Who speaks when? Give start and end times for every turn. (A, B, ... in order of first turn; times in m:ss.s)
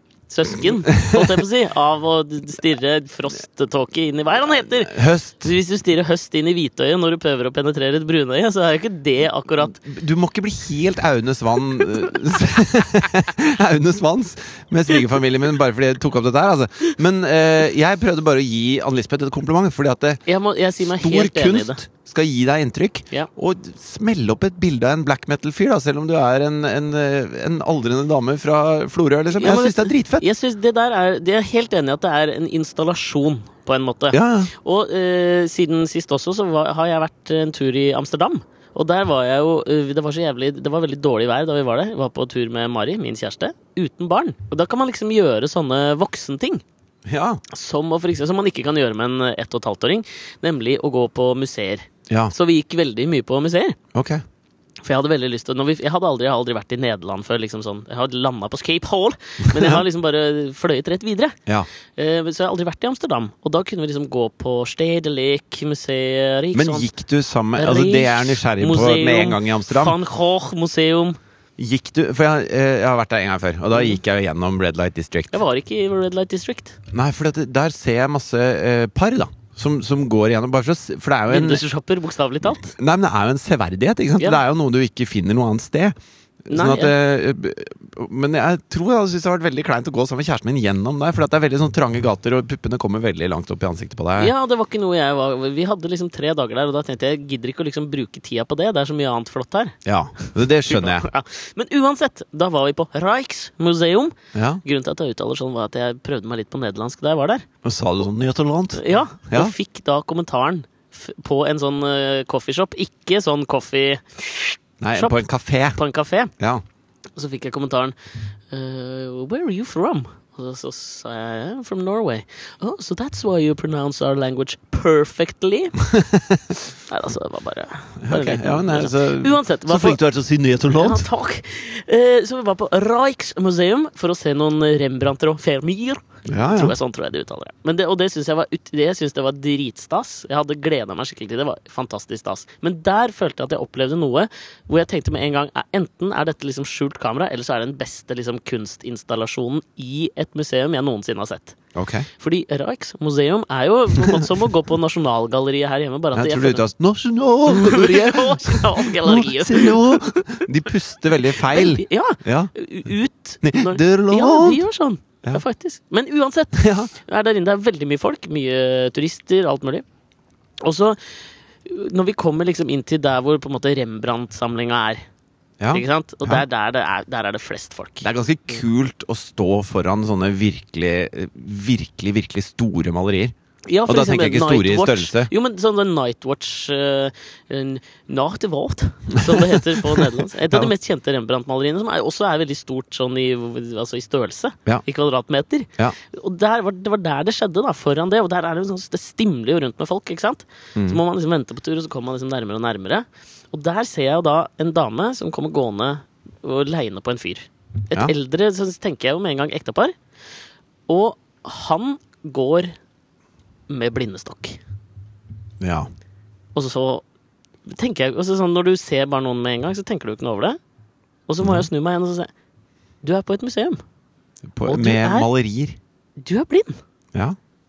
0:00.3-0:09.8 A
0:01.0-0:01.3 B
0:04.8-0:05.5 B
0:09.6-0:20.2 B
0:20.2-0:21.8 A
0:20.8-0:30.2 B
0:29.3-0:46.6 A
0:34.1-0:34.5 B
0:47.0-0:47.4 B
0:47.5-0:53.8 A
0:53.9-0:54.2 B
0:54.8-1:01.4 A
0:59.5-0:59.8 B
1:02.0-1:06.9 A
1:06.5-1:10.0 B
1:07.6-1:11.2 A
1:11.6-1:15.4 B
1:13.7-1:14.0 A
1:15.3-1:16.8 A
1:16.9-1:21.6 B
1:21.3-1:22.7 A
1:22.5-1:34.3 B
1:26.5-1:26.9 A
1:34.2-1:47.4 A
1:39.8-1:41.1 B
1:44.3-1:44.6 B
1:47.6-1:49.5 B
1:48.8-1:55.2 A
1:54.8-1:55.8 B
1:55.7-1:56.3 A
1:57.2-1:57.9 A
1:58.5-2:05.8 A
2:05.9-2:06.5 B
2:06.9-2:10.0 A
2:08.0-2:11.1 B
2:10.7-2:31.6 A
2:16.3-2:16.7 B
2:31.7-2:32.1 B
2:32.2-2:36.6 A
2:34.0-2:34.3 B
2:36.1-2:42.5 B
2:37.5-2:40.5 A
2:41.3-2:49.8 A
2:43.4-2:44.6 B
2:46.5-2:46.9 B
2:50.6-2:51.0 A
2:51.6-2:55.0 A
2:55.6-2:56.4 B
2:55.7-2:58.1 A
2:58.0-3:03.3 B
3:03.7-3:29.9 A
3:03.9-3:05.3 B
3:09.1-3:10.7 B
3:30.9-3:32.7 A
3:33.7-3:34.6 A
3:35.6-3:35.9 B
3:36.5-3:37.0 A
3:37.6-3:40.6 A
3:41.3-3:42.3 A
3:43.0-3:43.8 A
3:44.5-3:45.8 B
3:44.6-3:45.3 A
3:46.2-3:46.8 A